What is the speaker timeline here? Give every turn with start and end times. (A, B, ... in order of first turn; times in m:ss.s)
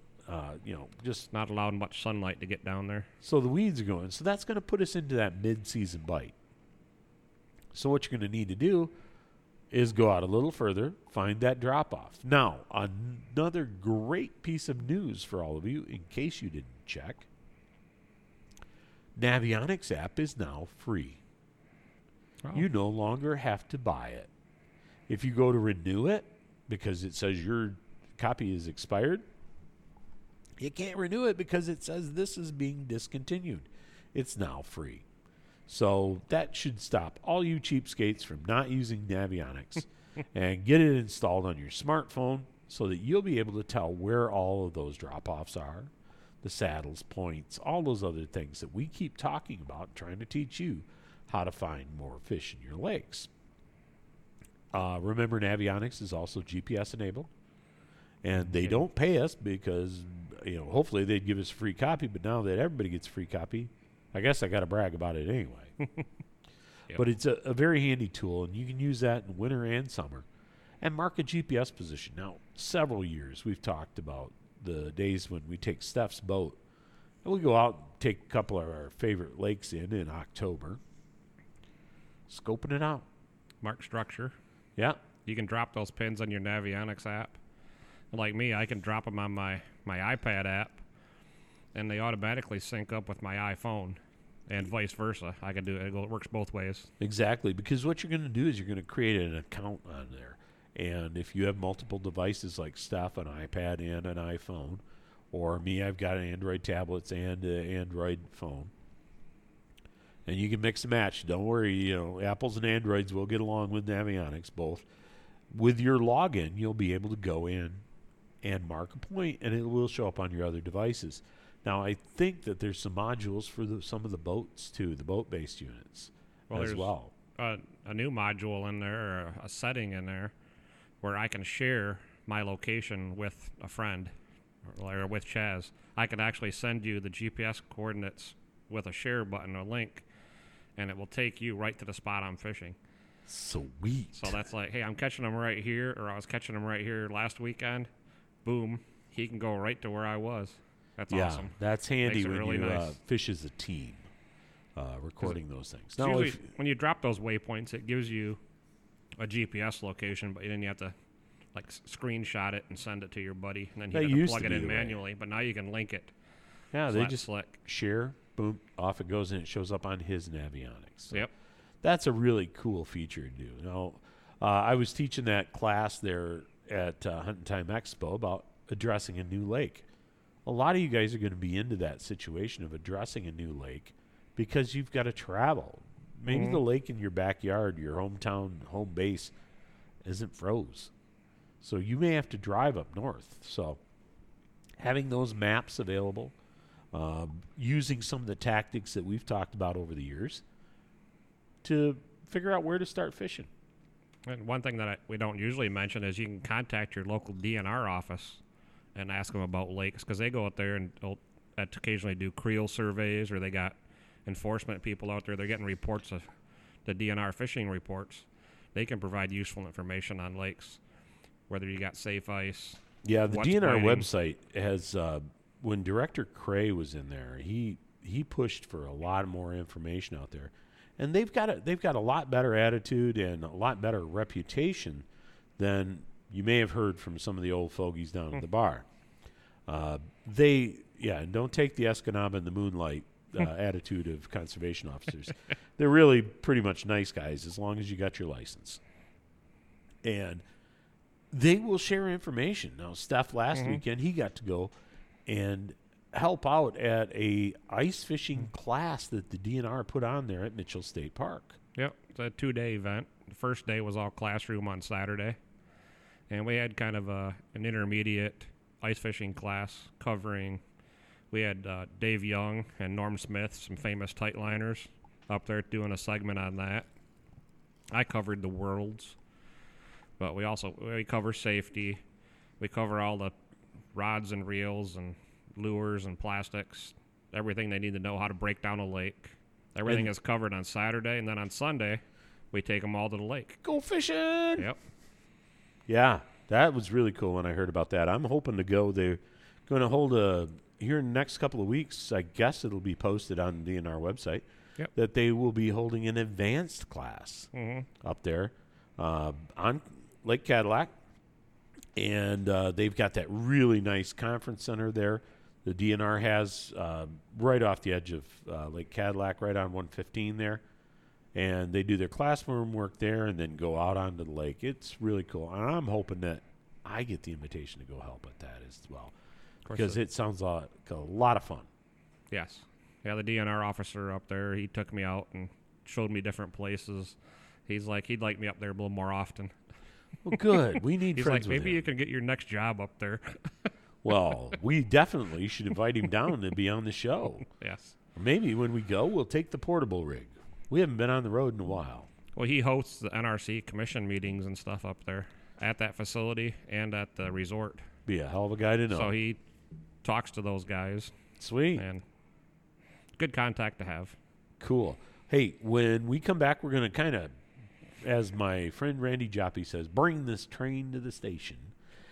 0:00.3-0:01.3 A
0:01.3-0:03.1 B
0:03.2-0:06.3 A
0:07.7-0:08.9 A
0:09.7-0:17.3 A
0:19.2-0:21.2 A
0:22.5-0:24.3 A
0:25.1-0:29.2 A
0:30.6-0:35.0 A
0:35.7-0:45.9 A
0:46.4-0:53.3 A
0:54.7-0:57.3 A
0:58.2-1:05.7 A
0:58.4-0:58.8 B
1:05.8-1:06.0 B
1:06.9-1:10.2 A
1:10.8-1:16.6 A
1:17.2-1:20.8 A
1:22.3-1:23.0 A
1:23.6-1:24.3 B
1:25.2-1:27.4 B
1:28.1-1:30.8 B
1:31.7-1:36.9 B
1:37.0-1:44.8 A
1:45.3-1:48.7 A
1:50.2-1:54.9 A
1:55.5-1:57.8 A
1:58.4-2:07.1 A
2:06.5-2:10.3 B
2:11.0-2:14.1 B
2:14.6-2:20.0 B
2:20.8-2:22.8 B
2:23.3-2:24.4 A
2:24.1-2:27.9 B
2:28.4-2:33.0 B
2:31.1-2:34.0 A
2:34.8-2:36.5 A
2:36.0-2:38.4 B
2:39.2-2:40.9 B
2:41.5-2:46.1 B
2:43.9-2:45.0 A
2:46.7-2:51.3 A
2:46.9-2:47.6 B
2:51.8-2:59.8 A
3:00.4-3:09.3 A
3:06.3-3:06.6 B
3:10.0-3:10.9 A
3:11.6-3:13.8 A
3:14.8-3:16.3 A
3:16.9-3:20.4 A
3:21.6-3:23.5 A
3:24.2-3:28.4 B
3:28.9-3:36.3 B
3:36.8-3:40.8 B
3:41.5-3:44.1 B
3:43.0-3:55.0 A
3:55.6-3:58.9 A
3:59.7-4:08.8 A
4:10.0-4:10.4 A
4:11.3-4:14.7 A
4:13.5-4:13.8 B
4:15.2-4:21.6 A
4:21.7-4:25.4 B
4:26.3-4:30.6 B
4:31.3-4:36.9 B
4:37.9-4:39.2 B
4:40.2-4:42.0 B
4:42.6-4:43.3 B
4:43.9-4:53.6 B
4:49.8-4:50.1 A
4:53.6-4:54.7 A
4:55.9-5:10.9 A
5:07.5-5:07.9 B
5:12.0-5:20.6 A
5:21.3-5:29.1 A
5:29.6-5:30.0 B
5:29.7-5:31.7 A
5:32.3-5:39.5 B
5:40.2-5:41.9 A
5:41.1-5:43.7 B
5:44.0-5:47.5 A
5:47.5-5:48.0 B
5:48.1-5:52.1 A
5:52.3-5:57.8 B
5:58.0-5:59.1 A
5:58.9-5:59.4 B
6:00.0-6:01.1 B
6:01.4-6:01.8 A
6:01.7-6:02.0 B
6:03.2-6:04.2 B
6:04.6-6:07.3 A
6:08.0-6:11.7 A